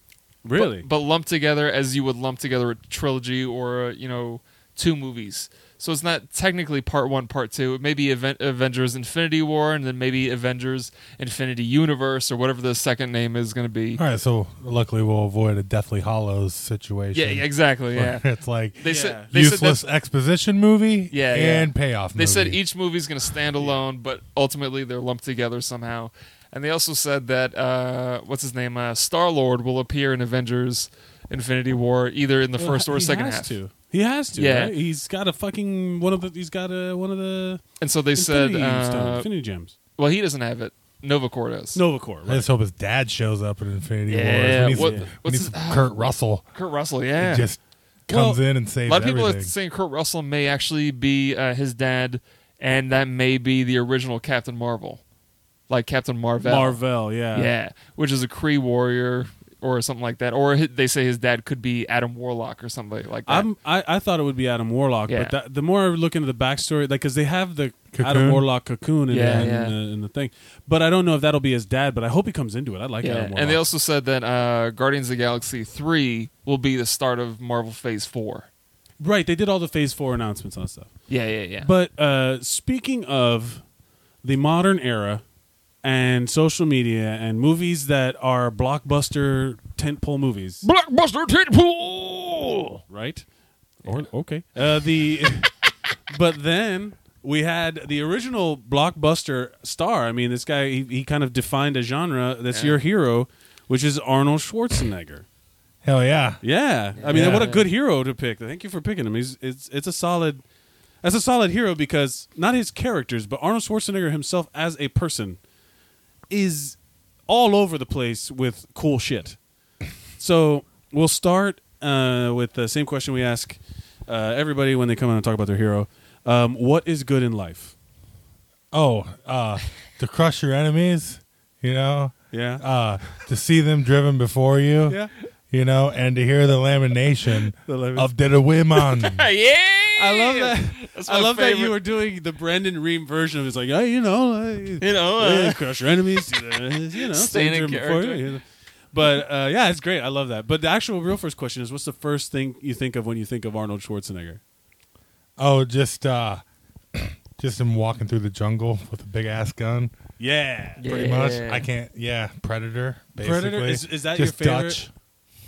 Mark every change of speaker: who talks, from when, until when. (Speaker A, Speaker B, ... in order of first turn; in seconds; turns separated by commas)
Speaker A: 0.4-0.9, Speaker B: 0.6-14.0, Speaker C: 13.9-22.6, Speaker B: 17.1-18.2, Speaker B: 18.8-19.8, Speaker A: 18.8-19.3, Speaker B: 21.1-33.6, Speaker A: 32.6-39.7, Speaker B: 34.3-34.7, Speaker B: 37.8-39.3, Speaker B: 40.0-41.8, Speaker A: 41.7-42.5, Speaker C: 42.3-46.4, Speaker B: 44.1-46.0, Speaker A: 44.7-45.1, Speaker B: 46.5-47.5, Speaker C: 47.2-49.5, Speaker A: 48.1-48.4, Speaker B: 48.9-55.0, Speaker B: 55.7-56.8, Speaker A: 56.4-57.5, Speaker B: 57.3-63.5, Speaker A: 63.2-73.7, Speaker B: 65.1-65.3, Speaker C: 67.9-68.4, Speaker B: 69.1-69.7, Speaker B: 73.0-78.5, Speaker A: 79.0-83.6, Speaker B: 81.1-81.7, Speaker A: 84.2-85.2, Speaker A: 85.8-90.6, Speaker B: 90.6-92.8, Speaker A: 92.9-93.2, Speaker A: 93.8-95.5, Speaker A: 96.1-105.2, Speaker B: 102.5-102.8, Speaker C: 105.8-106.4, Speaker A: 106.4-110.4, Speaker B: 107.0-107.7, Speaker C: 107.1-107.5, Speaker A: 111.0-115.4, Speaker A: 116.3-119.4, Speaker A: 120.2-127.7, Speaker C: 128.7-135.0, Speaker A: 132.3-132.6, Speaker C: 135.5-139.2, Speaker A: 137.7-138.1, Speaker B: 139.0-141.8, Speaker A: 140.0-154.4, Speaker B: 144.8-148.2, Speaker C: 155.4-159.9, Speaker A: 160.2-161.0, Speaker B: 160.8-161.6, Speaker C: 160.8-164.9, Speaker A: 163.2-164.9